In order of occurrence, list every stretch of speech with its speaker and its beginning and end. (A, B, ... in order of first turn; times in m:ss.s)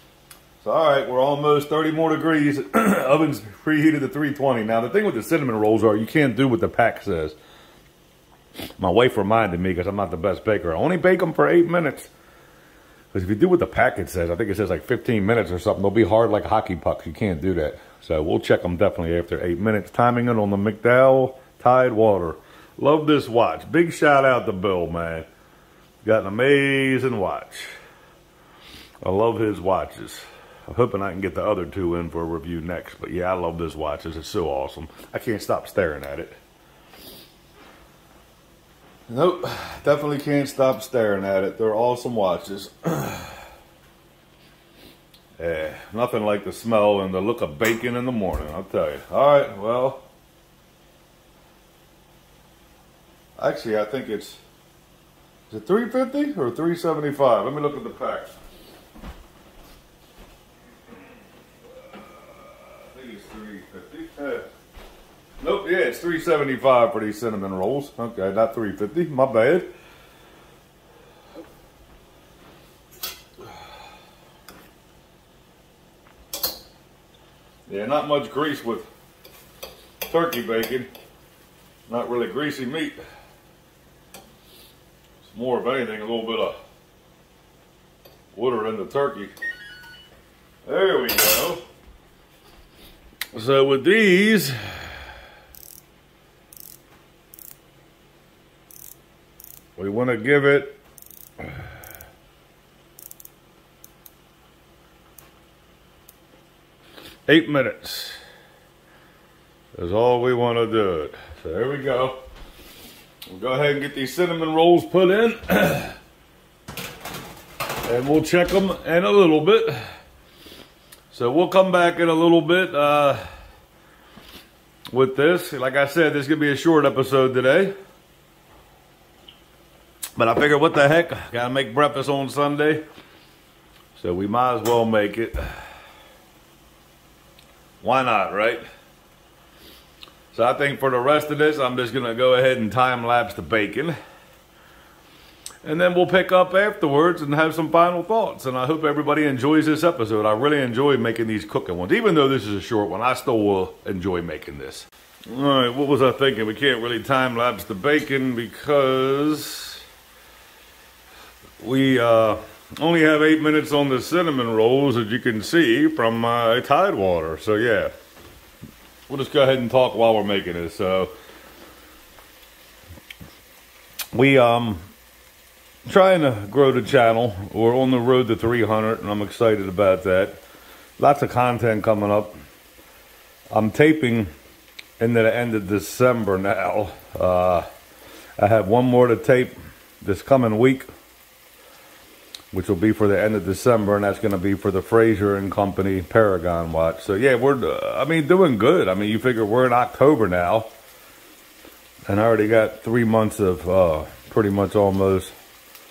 0:00.6-0:07.4 A
0:08.8-0:12.1 A
0:13.1-0:25.3 A
0:26.0-0:27.7 A
0:29.0-0:36.4 A
0:39.1-0:43.4 A
0:45.4-0:50.0 A
0:53.4-0:54.4 A
0:55.5-0:58.3 A
1:01.9-1:04.5 A
1:05.4-1:09.7 A
1:17.7-1:18.9 A
1:20.0-1:20.9 A
1:21.9-1:23.0 A
1:25.2-1:26.6 A
1:28.3-1:29.3 A
1:30.7-1:31.6 A
1:33.3-1:35.0 A
1:39.8-1:40.8 A
1:47.3-1:48.2 A
1:49.7-1:52.2 A
1:53.3-1:56.0 A
1:57.8-1:59.8 A
2:01.1-2:03.2 A
2:04.9-2:07.7 A
2:10.2-2:12.8 A
2:14.0-2:15.7 A
2:17.8-2:18.6 A
2:20.3-2:24.0 A
2:25.6-2:39.8 A
2:41.6-2:47.9 A
2:49.1-2:51.1 A
2:54.1-2:54.9 A
2:55.9-3:00.4 A
3:01.0-3:02.4 A
3:03.5-3:04.3 A
3:05.0-3:07.7 A
3:08.4-3:10.9 A
3:12.5-3:20.7 A
3:22.1-3:25.3 A